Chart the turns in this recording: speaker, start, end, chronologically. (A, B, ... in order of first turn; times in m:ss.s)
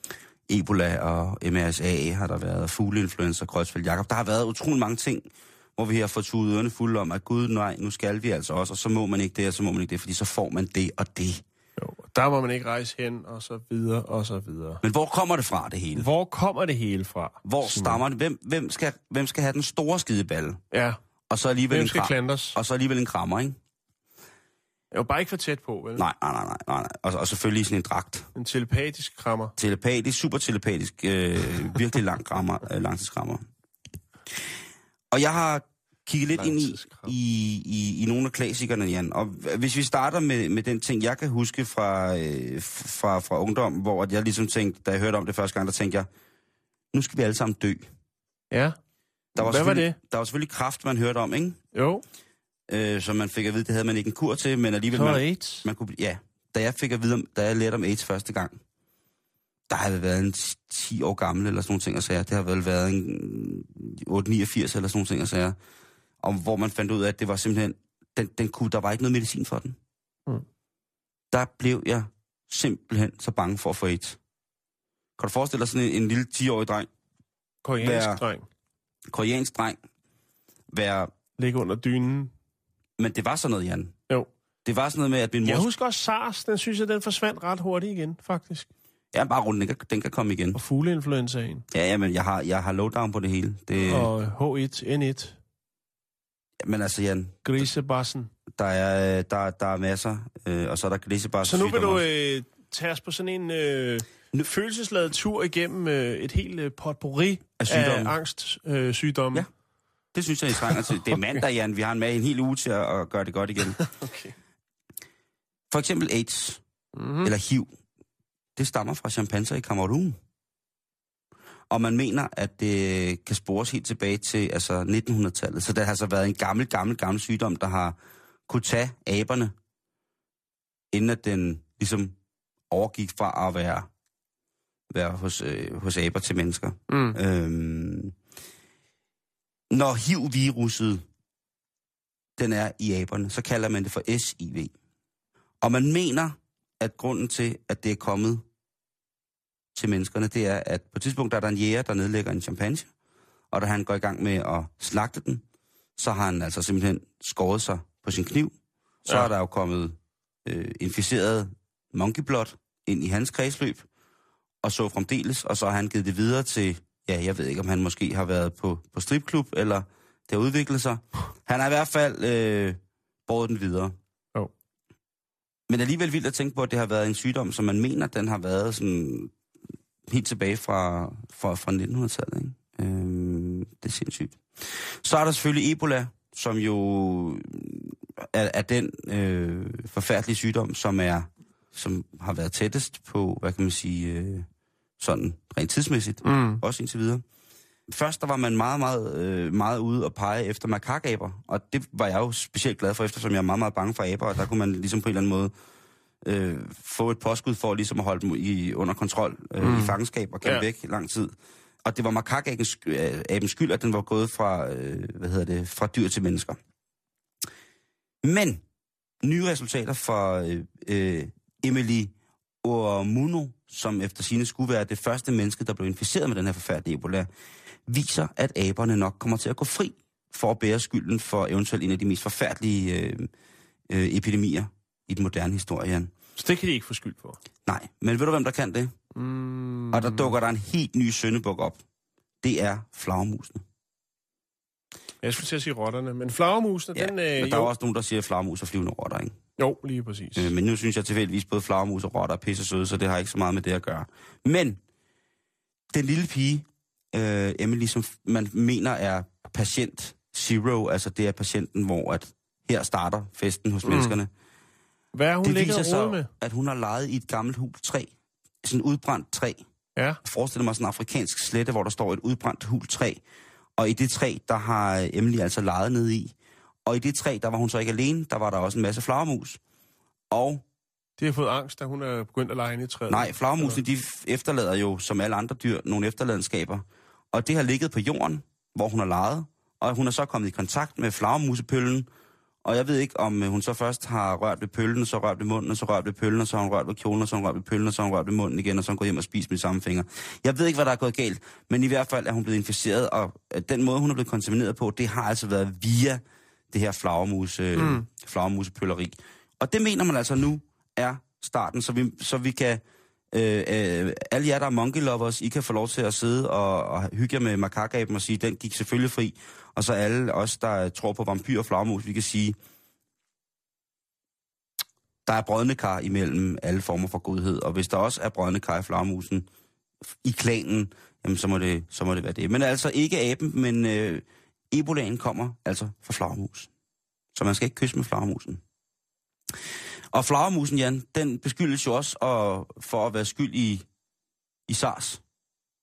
0:00.5-0:11.4 A
0:11.8-0:14.8 B
0:14.8-0:16.1 A
0:15.9-0:18.0 B
0:17.4-0:20.6 A
0:20.7-0:21.0 B
0:21.3-0:23.6 A
0:21.7-0:22.6 B
0:24.9-0:26.0 B
0:26.0-0:28.3 A
0:28.3-0:29.5 B
0:29.6-0:33.5 A
0:35.1-0:46.1 A
0:36.3-0:37.1 B
0:46.9-0:47.9 A
0:48.5-0:48.8 B
0:49.4-0:50.0 B
0:49.4-0:51.6 A
0:51.7-0:52.0 B
0:52.7-0:58.6 A
0:54.9-0:55.7 B
0:59.7-1:05.6 A
1:06.2-1:09.8 A
1:11.3-1:14.2 A
1:15.2-1:16.9 A
1:17.6-1:18.4 B
1:17.8-1:18.2 A
1:19.1-1:19.8 A
1:20.7-1:21.1 A
1:21.4-1:22.3 B
1:23.0-1:23.9 A
1:24.6-1:25.7 A
1:25.4-1:28.7 B
1:29.1-1:30.6 A
1:30.5-1:31.6 B
1:31.7-1:34.1 A
1:33.8-1:35.4 B
1:36.6-1:37.6 A
1:37.4-1:38.3 B
1:38.5-1:42.0 A
1:41.4-1:49.4 B
1:47.6-1:48.1 A
1:50.1-1:53.8 A
1:50.6-1:51.2 B
1:53.7-1:54.3 B
1:55.7-1:56.6 A
1:56.9-1:57.3 B
1:57.2-1:57.7 A
1:58.6-2:00.2 A
2:01.7-2:08.0 A
2:08.5-2:09.5 A
2:10.9-2:12.1 A
2:12.7-2:13.9 A
2:14.9-2:18.1 A
2:16.9-2:17.2 B
2:19.7-2:21.0 A
2:22.4-2:24.7 A
2:25.6-2:28.4 A
2:29.7-2:32.9 A
2:33.5-2:35.4 A
2:36.0-2:38.5 A
2:39.0-2:43.8 A
2:44.6-2:53.9 A
2:55.7-2:59.3 A
3:00.1-3:14.5 A
3:15.0-3:17.2 A
3:16.2-3:16.6 B
3:17.9-3:25.5 A
3:26.2-3:31.3 A
3:29.6-3:30.7 B
3:31.8-3:36.6 A
3:38.2-3:38.6 A
3:39.2-3:47.3 A
3:47.9-3:53.3 A
3:53.9-3:56.1 A
3:56.4-3:57.4 B
3:57.6-3:58.9 A
3:59.1-4:00.3 B
3:59.9-4:01.8 A
4:02.4-4:03.6 A
4:05.2-4:07.7 B
4:06.9-4:09.4 A
4:09.6-4:10.5 B
4:10.4-4:14.8 A
4:15.9-4:24.3 A
4:23.9-4:24.2 B
4:25.1-4:26.3 B
4:25.4-4:28.1 A
4:28.6-4:29.6 A
4:30.0-4:30.2 B
4:30.2-4:33.2 A
4:33.8-4:36.3 A
4:36.8-4:39.6 A
4:40.3-4:40.6 A
4:41.2-4:43.8 B
4:43.1-4:52.1 A
4:52.6-5:22.6 A
5:07.8-5:08.0 B
5:25.2-5:29.5 A
5:30.1-5:36.7 A
5:37.3-5:38.6 A
5:40.1-5:43.8 A
5:44.7-5:45.2 A